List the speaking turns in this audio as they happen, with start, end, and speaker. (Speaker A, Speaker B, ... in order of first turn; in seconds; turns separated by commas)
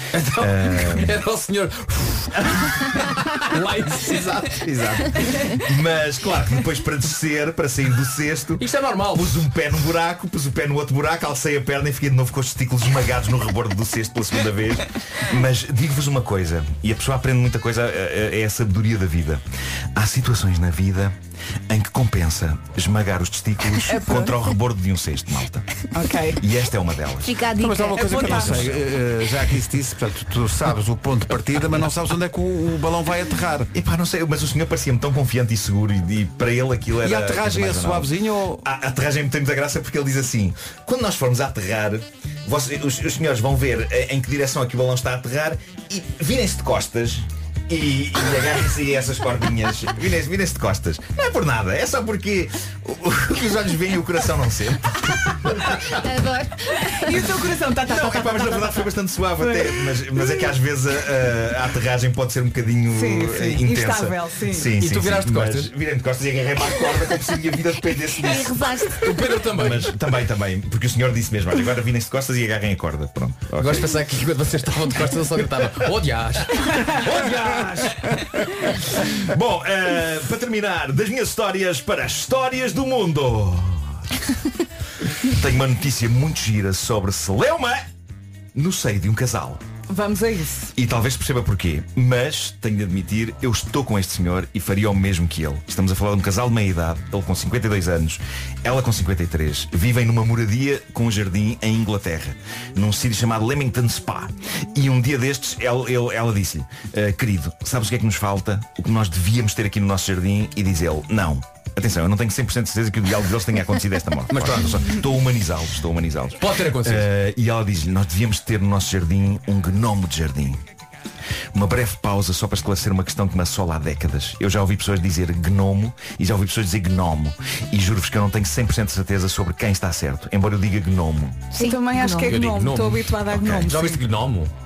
Speaker A: 0.1-4.7, Speaker B: 0.3-1.2, Speaker B: 4.1-19.4, Speaker A: 8.6-9.5, Speaker B: 19.9-21.1, Speaker B: 21.7-25.7, Speaker C: 23.9-24.3, Speaker C: 25.9-26.4, Speaker B: 26.4-27.5, Speaker D: 27.2-28.4, Speaker E: 27.6-33.7, Speaker C: 28.0-28.6, Speaker B: 28.2-28.8, Speaker B: 33.7-38.1, Speaker E: 37.0-38.7, Speaker B: 38.6-56.0, Speaker D: 55.9-57.2, Speaker C: 56.9-60.4, Speaker B: 57.8-68.7, Speaker C: 62.9-64.7, Speaker A: 64.8-65.7, Speaker D: 68.1-69.2, Speaker A: 69.0-70.0, Speaker B: 69.5-73.9, Speaker A: 73.6-78.1, Speaker B: 76.8-84.0, Speaker B: 85.2-87.8, Speaker B: 88.5-89.6, Speaker C: 89.9-90.7, Speaker B: 90.8-120.6, Speaker A: 114.3-114.9, Speaker A: 116.4-117.1, Speaker B: 121.5-131.5, Speaker C: 131.5-134.0, Speaker D: 131.6-132.4, Speaker A: 132.2-134.5, Speaker B: 133.4-133.6